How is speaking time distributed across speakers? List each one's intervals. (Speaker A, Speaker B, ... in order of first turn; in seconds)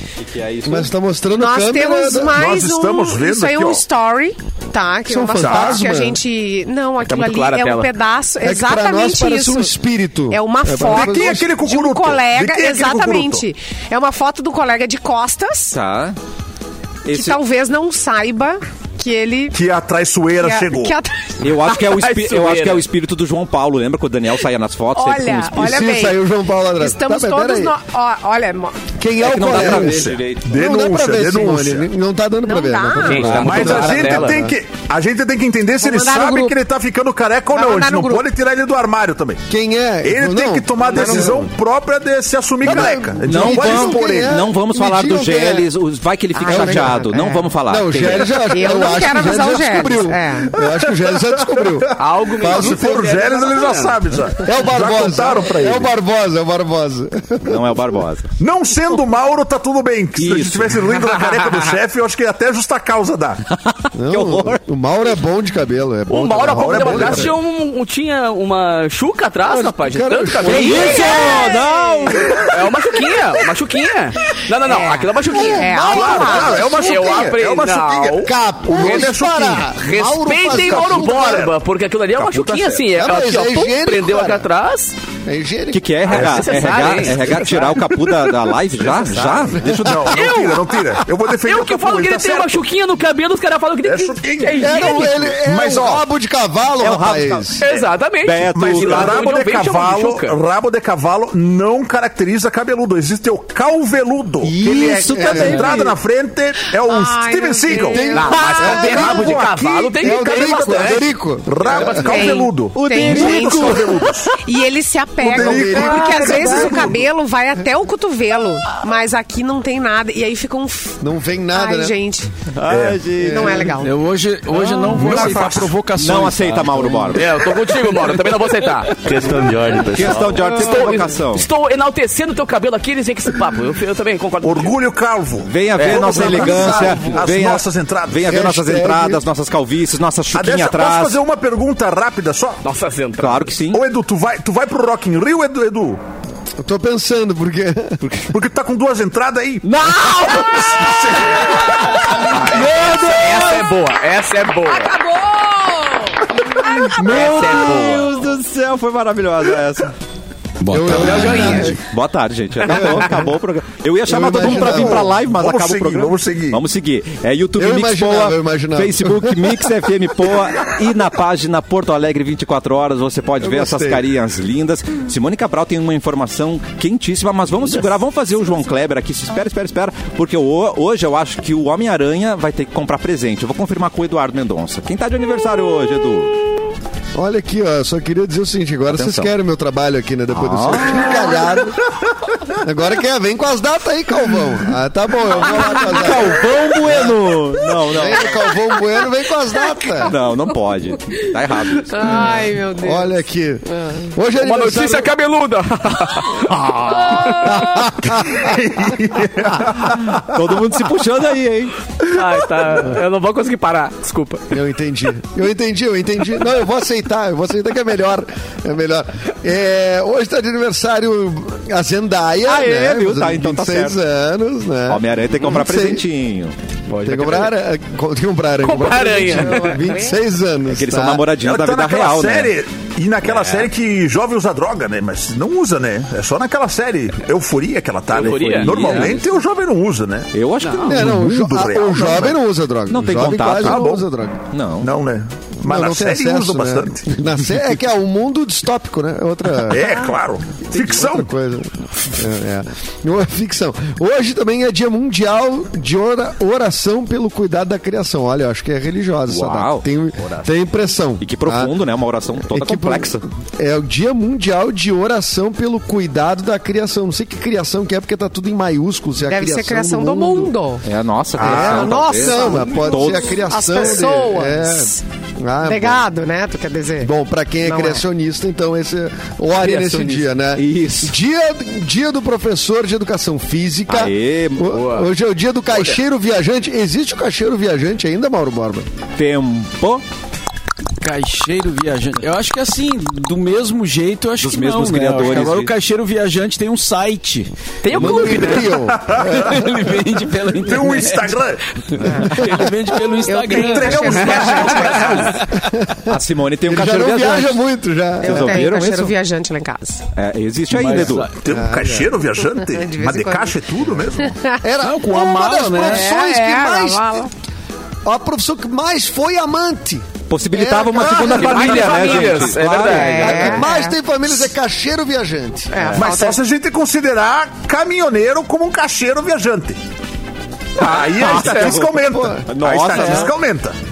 Speaker A: 0.2-0.9, 15.7-16.2, 17.1-17.4, 21.4-25.7, 29.2-30.6, 42.7-48.8, 57.4-58.3, 60.2-60.8, 63.5-64.6, 70.4-72.5, 85.7-90.4, 96.8-97.7, 98.2-99.3, 104.7-105.9, 112.7-114.2, 122.5-123.7, 124.5-127.4, 129.8-131.5, 135.4-141.2, 143.2-143.8, 149.6-153.7, 156.6-159.9, 160.8-186.4, 188.9-189.3, 190.3-191.4, 195.5-198.3, 200.0-202.2, 209.8-211.8, 222.5-224.0, 224.9-226.6, 230.7-232.5, 233.2-233.7, 238.3-239.2, 240.3-241.2, 242.9-243.9, 244.5-244.9, 259.3-259.9, 261.2-263.2, 270.8-273.9, 280.6-281.1, 283.9-284.9, 289.2-290.0, 294.4-295.7, 306.1-307.6, 308.2-309.1, 310.1-311.3, 320.3-323.5, 330.9-333.4
Speaker B: 0.7-2.4, 5.1-6.2, 8.4-11.5, 25.5-27.8, 29.0-34.5, 39.5-41.5, 42.6-45.7, 46.5-52.8, 54.4-57.7, 64.0-67.3, 69.5-71.6, 75.3-77.2, 78.2-81.5, 82.9-84.5, 85.3-86.8, 89.6-90.1, 94.6-97.6, 104.4-105.8, 107.7-109.4, 110.0-112.2, 115.2-116.9, 121.0-122.0, 123.2-123.8, 136.2-137.2, 138.3-139.2, 146.6-148.1, 160.7-161.8, 162.7-163.2, 164.1-165.2, 167.6-169.8, 173.4-174.0, 187.2-191.8, 192.6-197.2, 197.8-200.1, 202.0-205.1, 207.4-208.6, 214.5-226.1, 227.0-231.3, 240.9-244.4, 245.6-250.0, 250.7-261.8, 262.4-270.5, 271.4-276.1, 277.0-288.9, 297.9-299.9, 305.7-308.7, 311.5-312.1, 314.6-317.3, 318.1-322.3, 323.1-326.0, 332.1-332.5
Speaker C: 1.4-9.7, 10.3-15.8, 17.1-19.6, 20.4-21.4, 24.9-26.2, 26.8-28.9, 32.5-33.5, 35.8-36.5, 37.5-38.2, 40.9-41.4, 46.4-47.5, 48.1-50.5, 70.7-72.2, 74.6-76.7, 106.8-109.1, 112.0-121.0, 121.5-122.4, 123.2-124.0, 154.7-156.2, 201.9-203.2, 203.7-204.1, 229.2-230.2, 269.3-270.9, 271.4-275.0, 275.6-277.1, 277.6-278.0, 302.0-302.6, 303.2-305.4, 308.2-310.1, 312.6-313.6, 314.2-314.6, 315.8-317.3, 322.8-324.0, 325.7-326.4
Speaker D: 2.3-3.8, 5.4-5.8, 10.8-13.4, 19.5-21.0, 29.4-31.9, 33.2-39.4, 40.0-44.4, 51.4-55.9, 58.4-63.4, 66.5-67.4, 75.7-79.8, 80.4-81.5, 82.2-82.9, 86.1-88.1, 88.8-92.6, 93.8-96.0, 98.5-114.4, 115.2-117.0, 122.7-123.1, 125.0-125.7, 134.4-138.4, 140.3-142.6, 143.7-146.0, 148.2-152.0, 164.3-166.6, 208.4-210.2, 231.4-240.3, 241.0-242.4, 243.5-244.1, 244.8-247.2, 249.7-251.3, 298.9-299.4, 300.6-301.6, 303.5-305.4, 311.4-314.4, 326.0-329.8, 330.8-333.8
Speaker E: 7.0-7.9, 21.8-22.9, 33.0-34.4, 52.0-54.2, 66.1-71.6, 72.4-79.1, 79.8-85.0, 86.1-87.8, 90.1-95.3, 97.6-100.4, 108.1-111.1, 111.7-112.2, 127.2-129.5, 130.0-134.8, 135.8-136.8, 142.6-143.6, 152.1-155.0, 156.9-158.1, 161.1-161.6, 204.4-207.6, 212.0-214.5, 228.6-229.9, 238.1-239.2, 240.6-241.0, 279.6-280.1, 297.8-298.8, 304.2-305.1, 321.0-323.6, 330.8-331.7
Speaker F: 123.8-130.4, 160.6-161.8, 291.0-298.4, 299.1-305.4, 310.7-311.4, 314.8-316.1